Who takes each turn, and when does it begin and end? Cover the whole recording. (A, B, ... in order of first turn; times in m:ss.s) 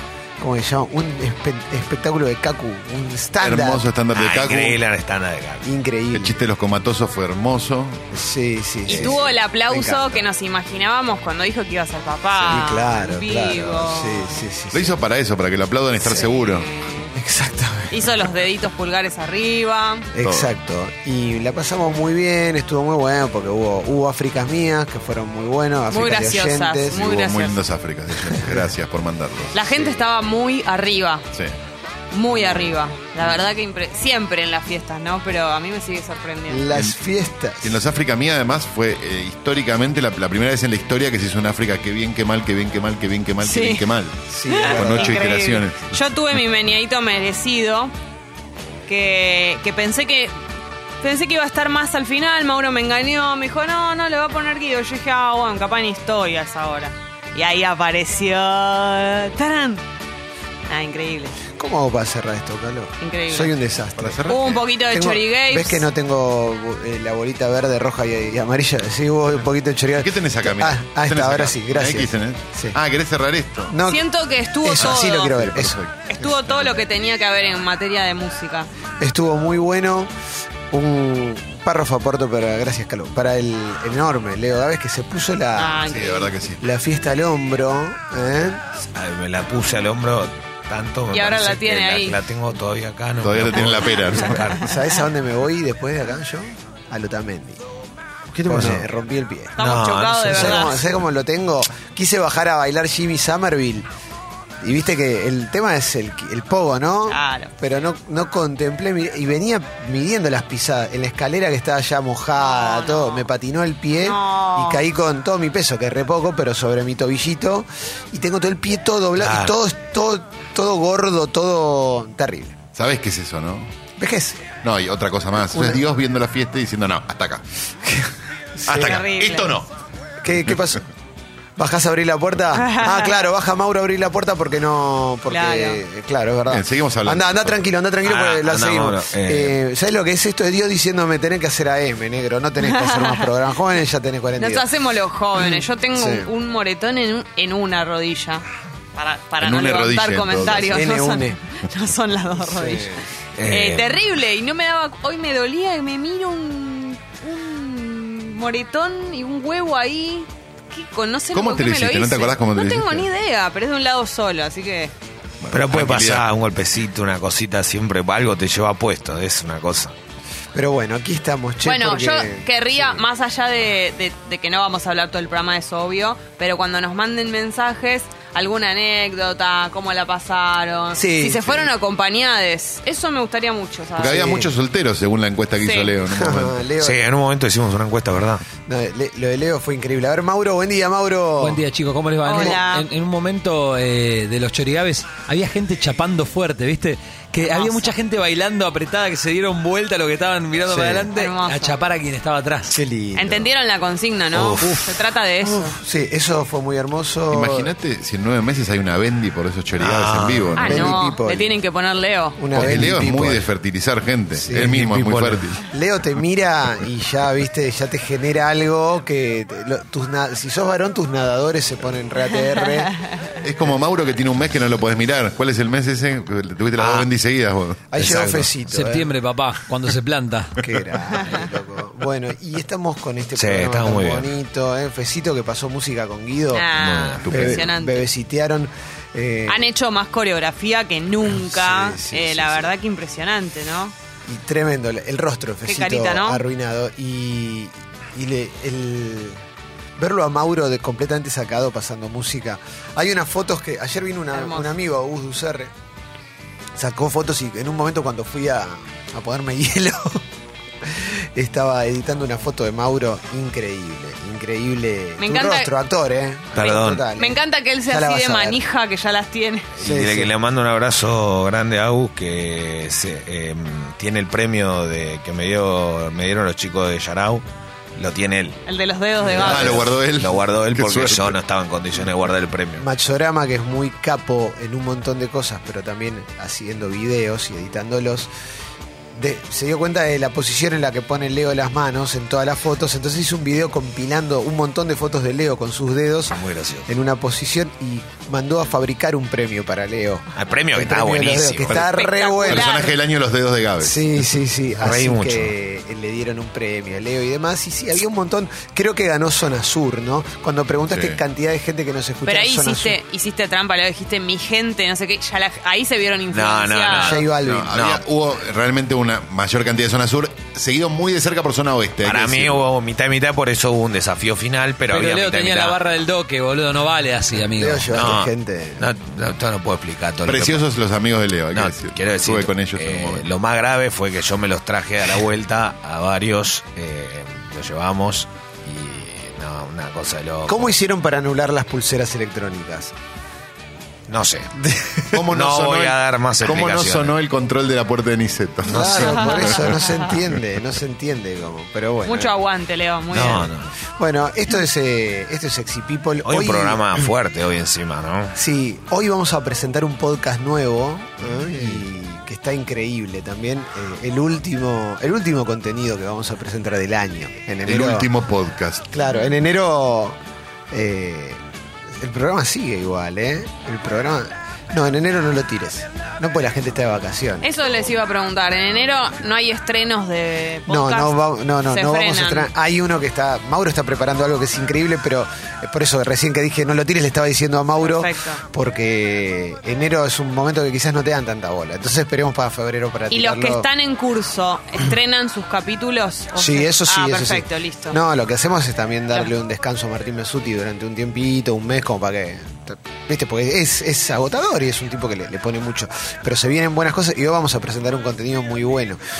0:00.4-0:03.8 A
0:03.4-0:04.8 B
0:04.1-0:05.6 C
0:05.6-0:06.4 A
0:06.1-0:08.0 B
0:08.1-0:10.2 A
0:08.9-0:14.3 D
0:12.4-0:15.0 A
0:14.7-0:16.7 B
0:16.0-0:16.3 A
0:16.2-0:17.1 D
0:17.2-0:18.2 A
0:17.9-0:20.1 D
0:20.1-0:27.2 A
0:20.2-0:20.5 B
0:25.9-0:27.6 D
0:27.0-0:29.5 B
0:28.2-0:28.7 A
0:29.5-0:31.2 D
0:29.7-0:30.0 A
0:32.1-0:36.7 D
0:32.3-0:33.4 A
0:36.5-0:37.8 A
0:37.6-0:44.2 B
0:43.4-0:43.8 D
0:44.3-0:45.2 A
0:44.5-0:47.9 D
0:44.7-0:46.0 B
0:48.9-0:50.3 D
0:51.0-0:59.8 D
1:00.7-1:01.3 D
1:01.6-1:04.2 A
1:03.0-1:03.5 D
1:04.0-1:04.6 B
1:04.3-1:05.9 D
1:04.8-1:12.8 A
1:10.0-1:13.8 B
1:13.7-1:14.0 A
1:13.9-1:15.3 D
1:14.6-1:16.5 A
1:14.8-1:16.0 B
1:16.1-1:18.7 D
1:19.0-1:20.1 A
1:20.7-1:28.6 A
1:25.6-1:26.3 D
1:25.9-1:26.6 B
1:28.8-1:34.6 C
1:31.1-1:32.2 D
1:33.2-1:34.4 B
1:34.4-1:37.6 A
1:38.3-1:39.6 A
1:38.5-1:38.8 C
1:39.6-1:40.8 D
1:39.6-1:40.7 C
1:40.2-1:43.9 A
1:44.6-2:02.6 A
1:47.1-1:47.5 D
1:52.4-1:53.3 D
1:54.0-1:54.9 D
1:59.2-1:59.6 C
2:02.8-2:03.7 B
2:04.0-2:04.4 A
2:04.6-2:07.4 B
2:05.5-2:05.8 A
2:07.9-2:09.0 A
2:08.7-2:09.6 B
2:08.7-2:09.6 D
2:10.2-2:10.8 A
2:11.6-2:24.6 A
2:12.6-2:13.2 D
2:15.3-2:15.8 D
2:16.5-2:17.6 B
2:18.0-2:19.6 C
2:22.6-2:23.2 D
2:24.4-2:28.4 D
2:25.3-2:26.3 A
2:29.0-2:44.9 D
2:29.4-2:30.8 B
2:30.5-2:31.4 A
2:32.4-2:33.0 A
2:33.4-2:33.9 C
2:41.3-2:43.1 B
2:45.4-2:46.2 B
2:45.5-2:49.9 C
2:50.5-2:53.1 A
2:51.6-3:04.4 D
3:00.9-3:01.7 A
3:04.0-3:04.5 A
3:04.0-3:06.6 B
3:05.6-3:05.9 D
3:06.1-3:07.0 A
3:06.8-3:08.4 C
3:08.6-3:11.6 A
3:11.4-3:22.7 E
3:12.2-3:12.9 D
3:17.4-3:17.9 D
3:20.6-3:21.1 A
3:21.1-3:21.8 D
3:22.7-3:23.5 A
3:23.1-3:25.7 D
3:24.3-3:24.9 C
3:25.4-3:27.7 A
3:27.3-3:30.9 B
3:29.8-3:30.6 C
3:30.6-3:32.4 D
3:30.6-3:31.6 A
3:32.4-3:33.5 A
3:32.5-3:35.6 B
3:34.3-3:34.9 A
3:34.5-3:35.4 C
3:35.6-3:42.9 A
3:42.3-3:43.1 D
3:43.4-3:47.8 B
3:46.8-3:47.1 C
3:47.9-3:49.1 A
3:48.0-3:48.5 C
3:48.7-3:50.6 E
3:50.6-3:56.7 A
3:53.4-3:54.3 C
3:56.5-3:58.1 D
3:56.7-3:57.7 C
3:57.2-3:59.7 A
3:59.5-4:03.9 D
4:01.3-4:02.7 A
4:04.3-4:09.4 A
4:05.6-4:06.4 D
4:10.0-4:15.7 A
4:14.3-4:14.7 D
4:16.8-4:20.2 A
4:20.8-4:28.6 A
4:25.2-4:25.7 D
4:26.5-4:27.0 C
4:26.6-4:29.7 D
4:29.8-4:30.3 A
4:29.8-4:37.4 C
4:38.0-4:38.6 C
4:38.7-4:39.9 D
4:39.2-4:39.8 A
4:39.3-4:41.4 B
4:39.4-4:42.8 C
4:42.8-4:48.3 A
4:49.1-5:02.8 A
4:56.3-4:56.9 C
5:00.3-5:01.8 C
5:01.9-5:02.9 D
5:02.4-5:04.1 B
5:03.8-5:13.0 A
5:04.8-5:05.5 C
5:10.9-5:11.2 B
5:12.3-5:17.2 D
5:16.3-5:18.0 C
5:16.9-5:17.7 A
5:17.4-5:22.6 B
5:22.0-5:25.8 C
5:24.9-5:27.9 E
5:27.6-5:28.9 A
5:27.9-5:30.7 C
5:30.3-5:33.3 B
5:31.5-5:40.7 C
5:40.5-5:42.9 A
5:44.1-5:44.5 C
5:44.6-5:45.2 A
5:45.1-5:49.4 B
5:45.3-5:47.1 C
5:48.7-5:52.3 A
5:48.7-5:49.3 C
5:49.0-5:50.1 D
5:52.0-5:53.5 D
5:53.1-5:53.7 C
5:53.1-5:53.4 A
5:54.0-5:57.1 A
5:56.2-5:58.4 C
5:58.3-6:08.1 A
6:07.7-6:08.9 B
6:08.9-6:10.2 A
6:10.7-6:17.5 A
6:17.4-6:22.5 D
6:20.7-6:33.7 A
6:27.8-6:28.4 D
6:33.1-6:38.0 D
6:36.3-6:49.0 A